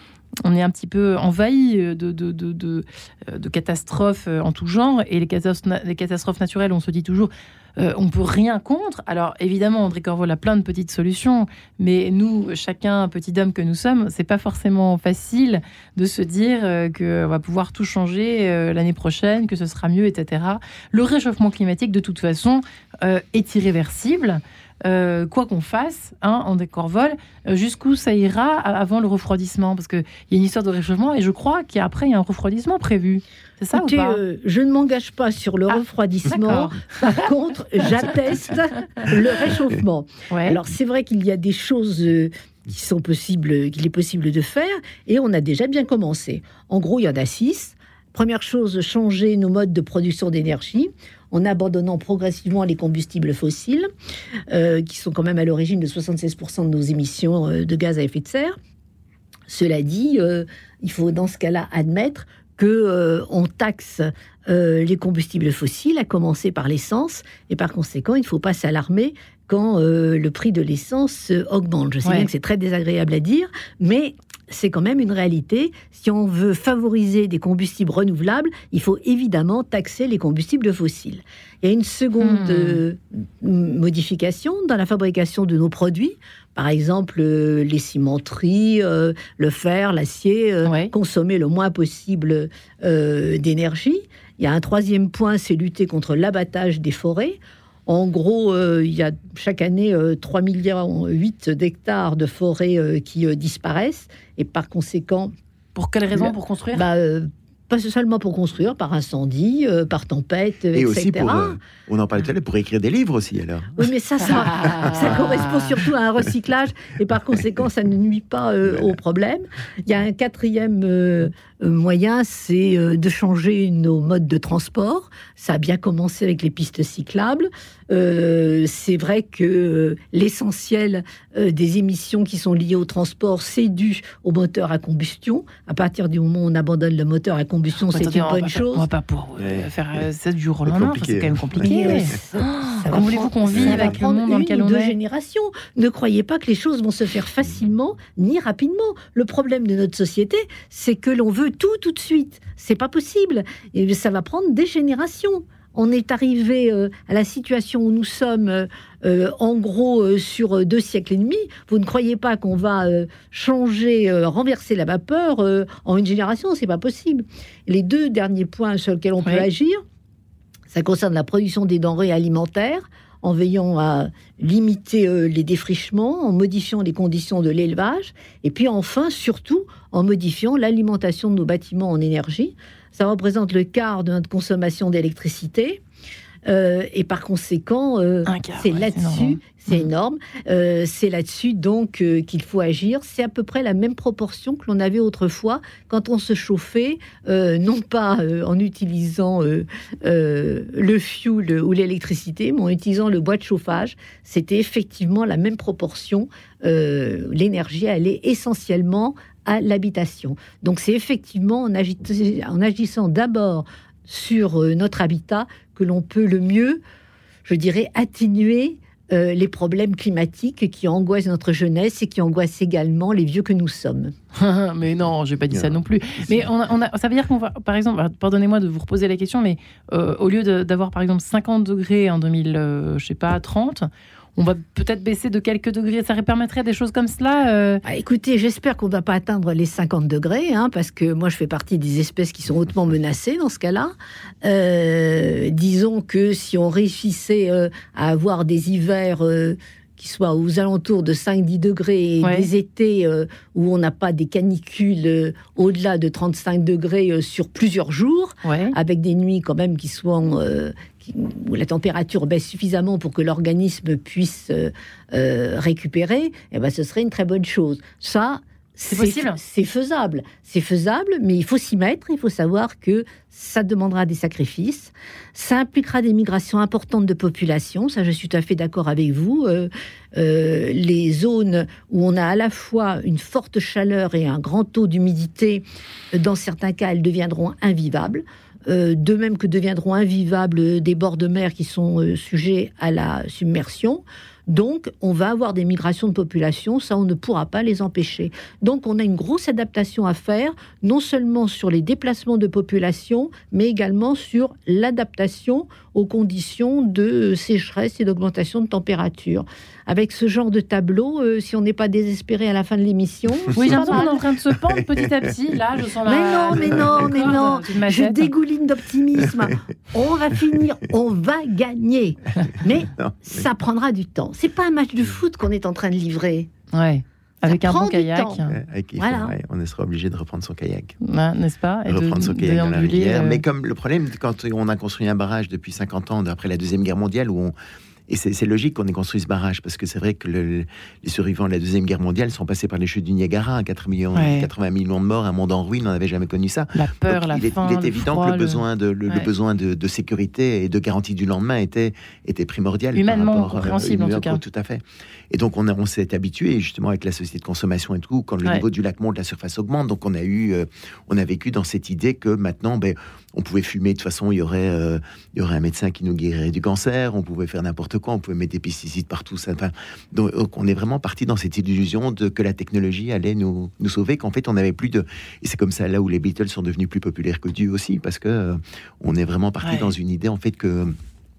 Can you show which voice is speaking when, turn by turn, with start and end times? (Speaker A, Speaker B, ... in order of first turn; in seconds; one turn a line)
Speaker A: 0.4-34.2
Speaker B: 33.7-53.9
Speaker A: 35.7-37.2
Speaker A: 40.3-40.6
Speaker B: 54.5-58.6
Speaker B: 59.5-105.3
Speaker A: 72.0-72.3
Speaker A: 82.2-82.8
Speaker A: 90.7-90.9
Speaker A: 105.8-106.9
Speaker B: 106.1-111.6
Speaker C: 110.7-113.9
Speaker B: 113.8-138.9
Speaker A: 114.2-115.7
Speaker A: 137.8-144.9
Speaker C: 139.4-140.0
Speaker C: 140.7-142.0
Speaker B: 141.6-169.8
Speaker C: 143.5-144.0
Speaker B: 170.7-185.8
Speaker B: 186.5-216.8
Speaker A: 188.3-189.9
Speaker B: 217.4-224.1
Speaker A: 224.3-237.8
Speaker C: 225.5-226.5
Speaker B: 237.8-243.9
Speaker B: 244.4-314.2
Speaker A: 252.2-252.5
Speaker A: 258.4-258.8
Speaker A: 268.9-269.4
Speaker C: 313.5-314.0
Speaker A: 313.5-318.3
Speaker B: 316.1-326.5
Speaker C: 322.8-323.4
Speaker A: 326.7-328.6
Speaker B: 327.4-328.4
Speaker C: 328.5-331.0
Speaker B: 329.0-329.4
Speaker A: 331.0-333.4
Speaker C: 331.9-337.5
Speaker C: 338.1-381.0
Speaker A: 344.1-344.5
Speaker A: 346.7-349.3
Speaker A: 352.9-354.4
Speaker A: 379.6-379.9